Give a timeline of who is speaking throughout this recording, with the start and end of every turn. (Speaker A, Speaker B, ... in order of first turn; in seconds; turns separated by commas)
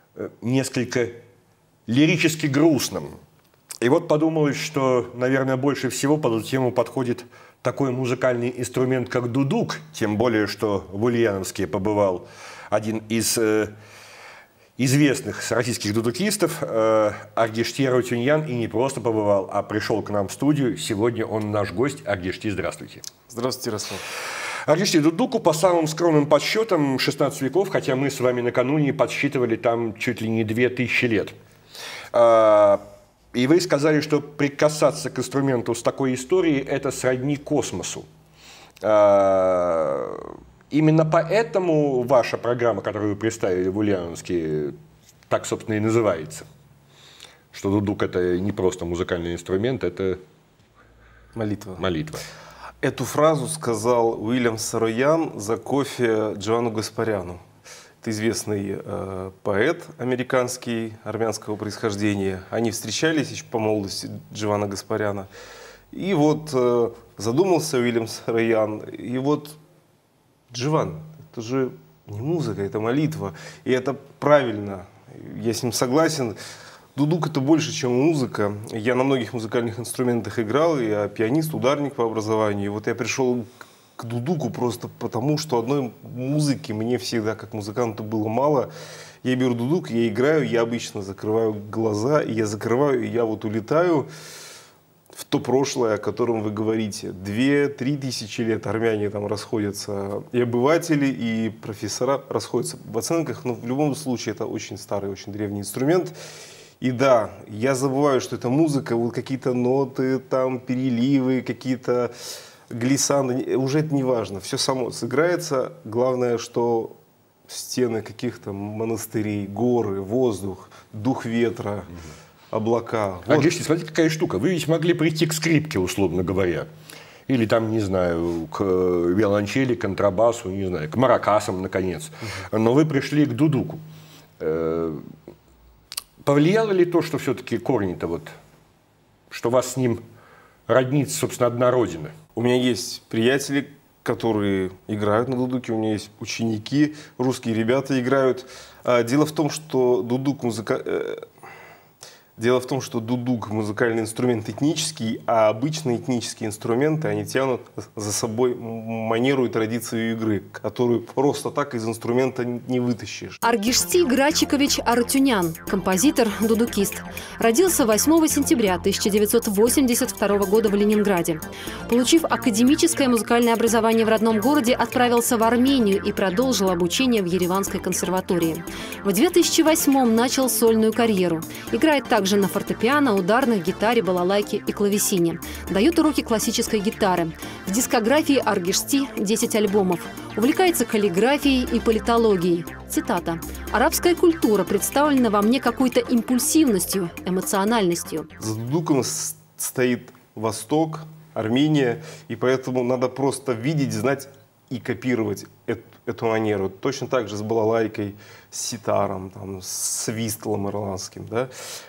Speaker A: 0.2-1.2, Speaker A: 1.9-3.2, Speaker A: 3.8-13.7, Speaker A: 14.8-23.0, Speaker B: 23.3-24.0, Speaker A: 24.7-31.4, Speaker A: 32.1-38.1, Speaker A: 38.8-44.8, Speaker A: 45.3-46.5, Speaker A: 47.5-50.2, Speaker B: 51.4-51.8, Speaker A: 51.8-52.2, Speaker B: 52.8-57.4, Speaker B: 58.0-65.3, Speaker B: 65.9-69.6, Speaker B: 70.5-76.4, Speaker B: 77.0-88.7, Speaker B: 89.2-94.1, Speaker B: 95.2-106.2, Speaker B: 106.8-112.1, Speaker B: 112.7-117.0, Speaker B: 117.5-121.9, Speaker B: 122.5-123.6, Speaker A: 123.3-126.7, Speaker A: 127.3-133.8, Speaker A: 134.4-135.1, Speaker A: 136.2-138.3, Speaker A: 139.3-140.0, Speaker A: 140.7-142.2, Speaker B: 142.3-151.3, Speaker B: 152.4-163.4, Speaker C: 163.4-198.3, Speaker B: 198.4-211.5